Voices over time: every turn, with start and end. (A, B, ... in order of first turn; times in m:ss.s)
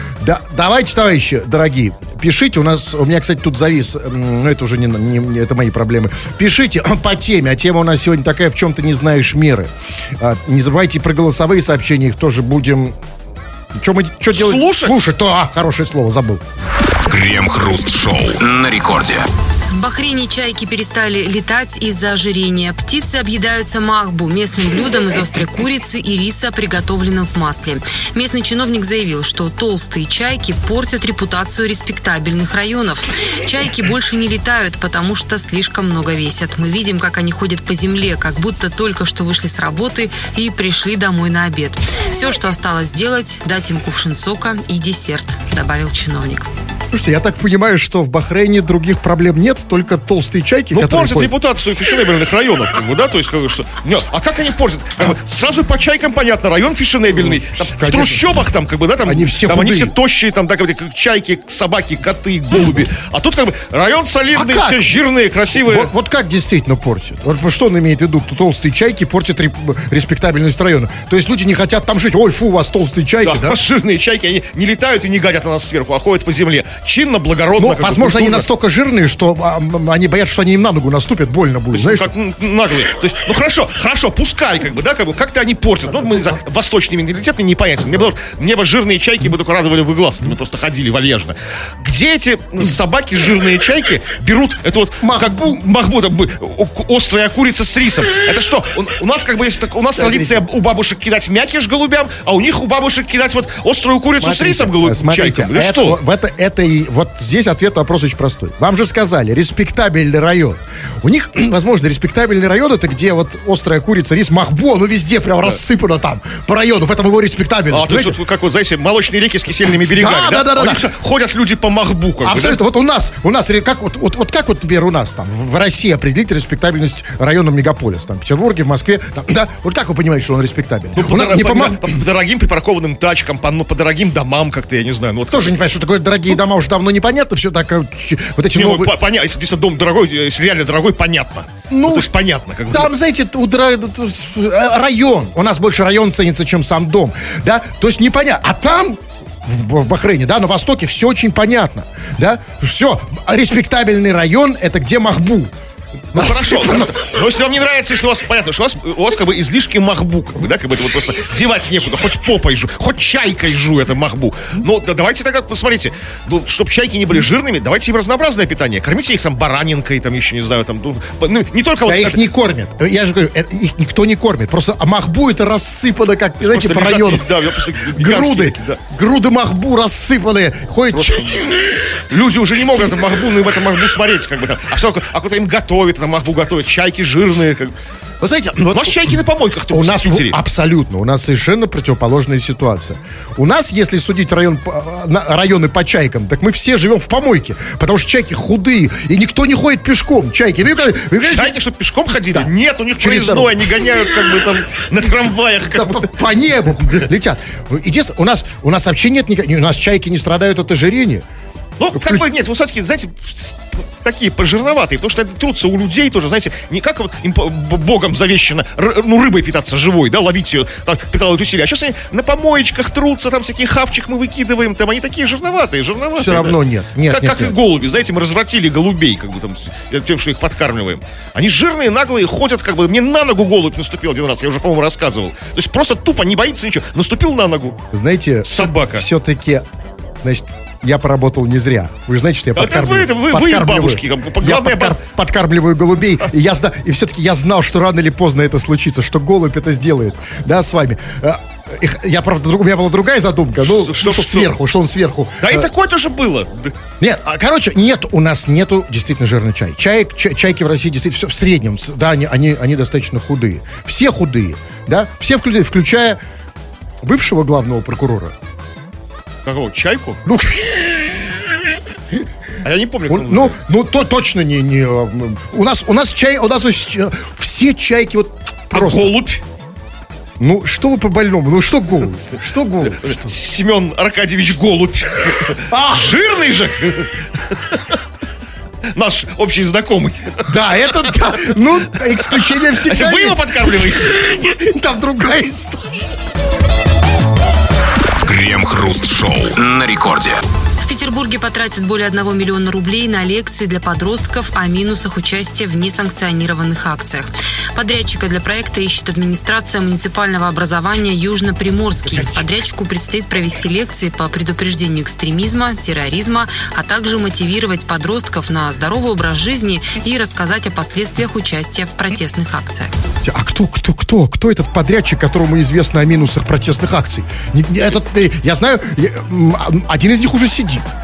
0:00.2-0:12.9 A
0:13.7-0:16.4 A
0:14.3-0:15.0 B
0:17.0-0:19.3 C
0:19.7-0:46.5 D
0:46.9-0:51.3 A
0:50.7-1:05.9 B
0:57.2-0:58.3 A
0:59.0-1:00.0 A
1:04.4-1:04.8 A
1:05.6-1:13.6 A
1:13.2-1:18.5 B
1:17.6-1:22.1 A
1:21.7-1:46.0 B
1:35.0-1:35.6 A
1:40.0-1:40.4 A
1:44.2-1:58.2 A
1:57.7-2:02.6 B
1:59.9-2:00.9 A
2:02.2-2:12.0 A
2:11.0-2:15.6 B
2:15.3-2:18.9 A
2:18.5-2:22.9 B
2:21.7-2:22.1 A
2:22.7-2:35.5 A
2:36.1-2:37.0 A
2:36.1-2:52.2 B
2:51.9-2:57.4 A
2:56.4-2:58.8 B
2:57.9-3:01.8 A
3:01.0-3:01.4 B
3:02.1-3:07.7 B
3:08.2-3:09.2 A
3:08.7-3:10.4 B
3:09.7-3:21.5 A
3:21.2-3:26.1 B
3:22.3-3:23.8 A
3:25.7-3:31.2 A
3:31.8-3:57.8 B
3:32.0-3:32.2 A
3:46.2-3:47.6 A
3:57.9-3:59.6 A
3:58.5-3:59.1 B
4:00.2-4:15.7 A
4:02.6-4:05.0 B
4:13.6-4:14.5 B
4:15.4-4:16.8 B
4:17.0-4:26.2 A
4:27.0-4:28.3 A
4:29.4-4:30.2 B
4:30.3-4:31.2 A
4:32.6-4:33.6 B
4:33.1-4:39.1 A
4:38.7-4:39.4 B
4:40.4-4:43.3 A
4:42.9-4:47.8 B
4:45.7-4:46.2 A
4:48.9-4:50.5 B
4:50.5-4:56.0 A
4:52.4-4:54.2 B
4:58.2-5:00.4 C
5:00.8-5:22.9 D
5:23.2-5:30.9 A